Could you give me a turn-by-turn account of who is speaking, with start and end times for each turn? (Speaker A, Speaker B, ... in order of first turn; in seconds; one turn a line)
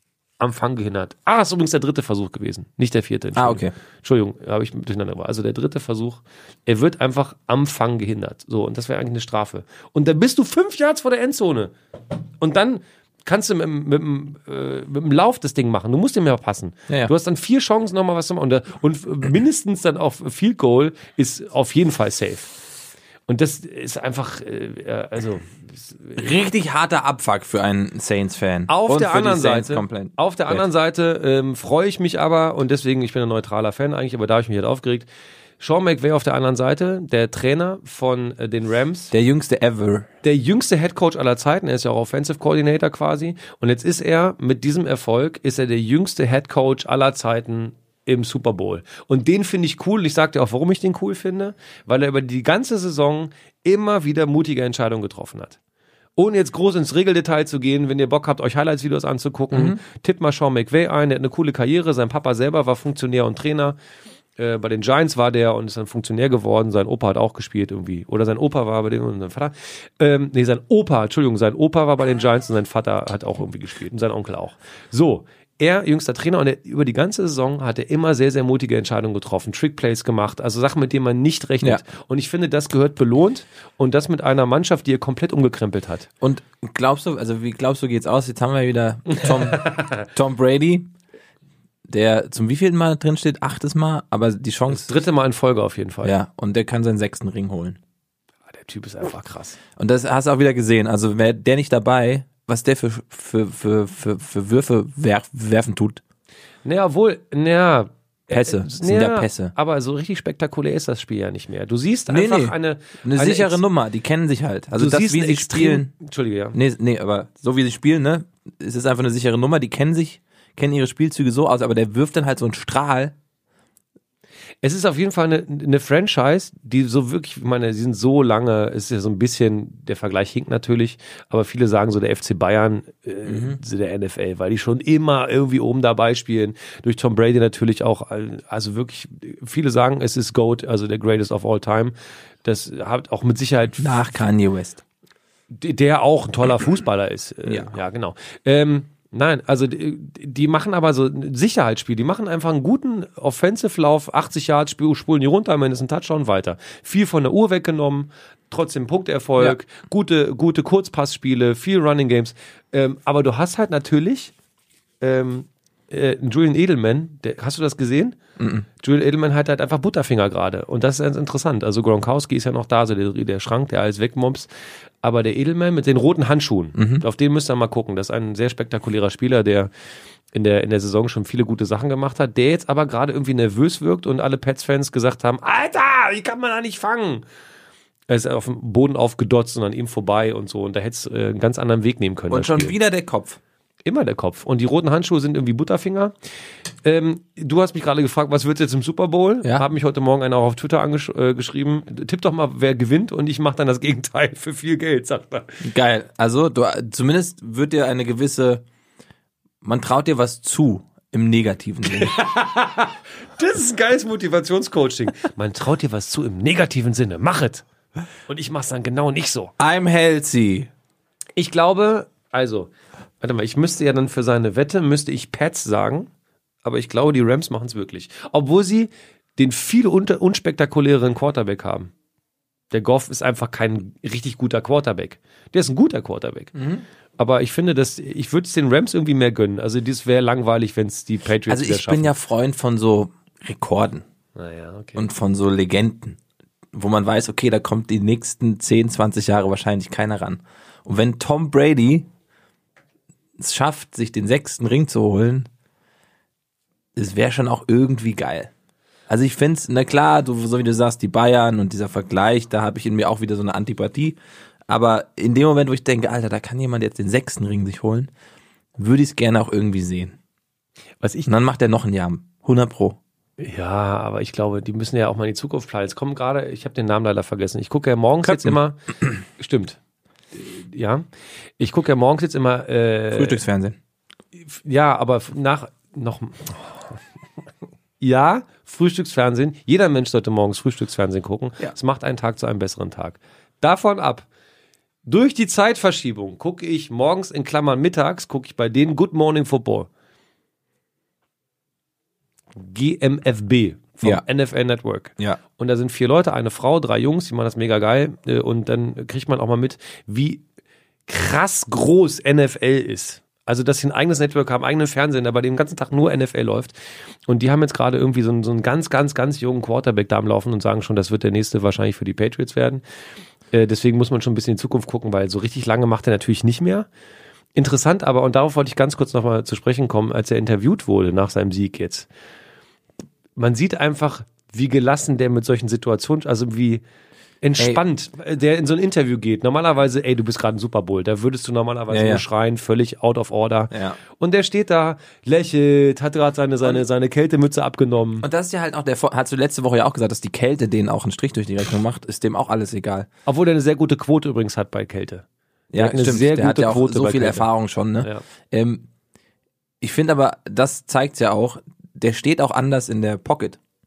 Speaker A: 0.4-11.7
Speaker B: 3.4-3.7
Speaker A: 12.4-22.5
Speaker A: 23.3-26.2
Speaker B: 26.2-30.6
Speaker A: 28.7-35.1
Speaker A: 35.6-39.1
Speaker B: 39.1-40.1
Speaker A: 40.2-55.6
Speaker A: 56.2-63.8
Speaker B: 59.5-59.8
Speaker A: 64.4-86.1
Speaker B: 86.2-90.9
Speaker A: 89.1-90.0
Speaker B: 91.9-94.9
Speaker A: 94.7-96.2
Speaker B: 96.0-97.8
Speaker A: 98.5-99.6
Speaker B: 99.8-106.0
Speaker A: 106.7-113.6
Speaker B: 108.3-109.5
Speaker B: 112.1-115.9
Speaker A: 114.8-116.6
Speaker B: 116.5-123.2
Speaker A: 124.6-144.0
Speaker B: 133.3-133.6
Speaker B: 143.8-144.8
Speaker A: 145.5-164.3
Speaker B: 147.5-147.8
Speaker A: 165.0-168.2
Speaker B: 168.4-168.7
Speaker A: 168.8-174.5
Speaker A: 175.0-179.7
Speaker B: 176.8-177.1
Speaker A: 180.3-187.2
Speaker A: 188.1-192.8
Speaker B: 192.3-193.4
Speaker A: 193.9-196.1
Speaker A: 196.8-205.6
Speaker B: 205.6-208.6
Speaker B: 209.6-212.1
Speaker A: 211.9-217.7
Speaker A: 218.3-219.5
Speaker B: 219.6-220.7
Speaker A: 221.4-226.1
Speaker A: 226.6-231.9
Speaker A: 232.7-236.5
Speaker B: 236.6-236.8
Speaker A: 237.2-242.1
Speaker B: 241.5-244.0
Speaker A: 244.4-245.1
Speaker B: 245.0-246.2
Speaker B: 246.7-252.1
Speaker B: 253.4-255.5
Speaker B: 257.0-258.5
Speaker B: 259.1-264.2
Speaker B: 264.7-268.1
Speaker B: 268.8-270.2
Speaker A: 271.0-271.3
Speaker B: 271.3-273.0
Speaker A: 273.4-279.8
Speaker B: 278.2-278.6
Speaker A: 280.3-281.1
Speaker A: 281.6-283.4
Speaker B: 283.1-283.8
Speaker A: 284.4-287.0
Speaker A: 288.0-294.3
Speaker A: 295.1-299.9
Speaker A: 302.6-310.4
Speaker A: 311.1-316.7
Speaker A: 317.3-322.8
Speaker A: 323.5-326.9
Speaker A: 327.6-332.1
Speaker A: 333.4-336.8
Speaker A: 337.4-348.3
Speaker B: 341.9-342.2
Speaker B: 343.7-344.0
Speaker B: 348.2-353.1
Speaker A: 353.3-357.5
Speaker B: 355.7-358.9
Speaker B: 359.8-363.6